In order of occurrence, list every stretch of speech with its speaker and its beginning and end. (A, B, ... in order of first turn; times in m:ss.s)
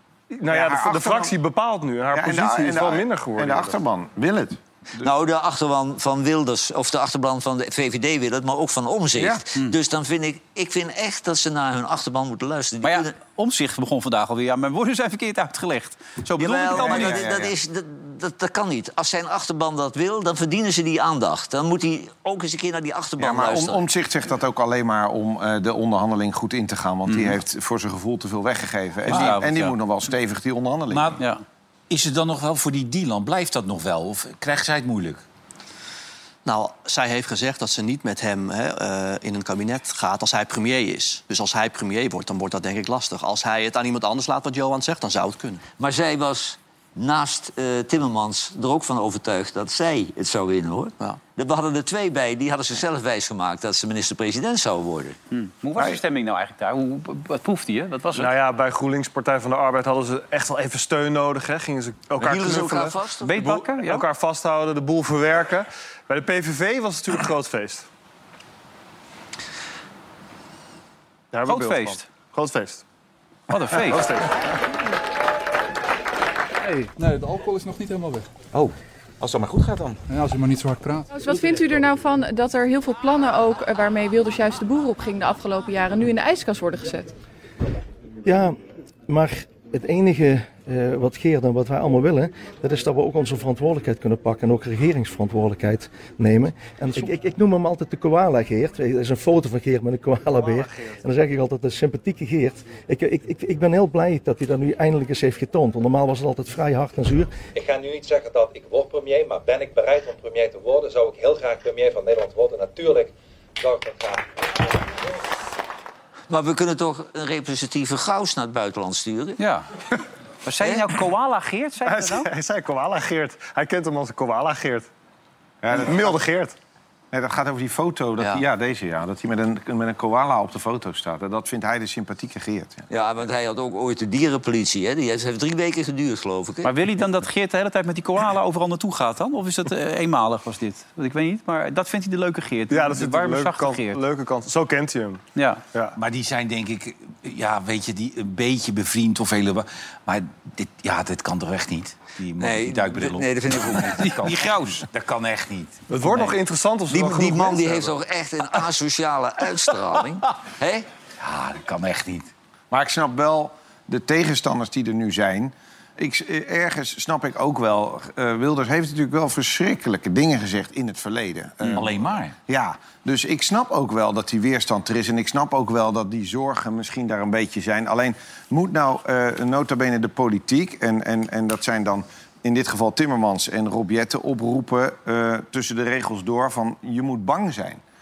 0:00.3-0:03.8 A
0:00.4-0:01.3 B
0:02.1-0:05.1 B
0:05.0-0:13.1 C
0:09.2-0:09.4 B
0:12.8-0:17.2 D
0:16.4-0:23.8 C
0:16.7-0:17.5 B
0:23.2-0:31.2 B
0:27.1-0:27.3 D
0:29.1-0:29.7 D
0:29.1-0:29.4 E
0:30.9-0:31.2 E
0:31.9-0:35.2 E
0:36.4-0:45.6 F
0:45.8-0:55.2 C
0:55.3-0:58.3 D
0:58.1-1:07.8 A
1:02.2-1:03.4 C
1:03.2-1:04.0 D
1:11.3-1:12.8 A
1:11.4-1:12.0 D
1:13.5-1:14.1 D
1:13.7-1:14.3 A
1:16.6-1:18.3 G
1:19.2-1:20.0 E
1:20.1-1:21.1 G
1:21.1-1:27.1 H
1:28.2-1:28.6 I
1:29.1-1:47.4 I
1:47.5-1:54.4 J
1:56.3-1:59.4 C
1:59.4-1:59.6 D
2:00.4-2:02.3 D
2:01.8-2:04.9 A
2:05.6-2:06.2 B
2:05.7-2:06.5 A
2:07.1-2:12.8 B
2:12.9-2:16.7 C
2:16.6-2:24.0 D
2:22.7-2:25.2 A
2:25.4-2:25.6 D
2:26.0-2:35.8 E
2:32.4-2:34.2 C
2:34.0-2:34.8 D
2:35.9-2:37.9 A
2:36.9-2:40.9 C
2:41.2-2:42.3 E
2:42.7-3:07.8 B
2:51.7-2:52.4 E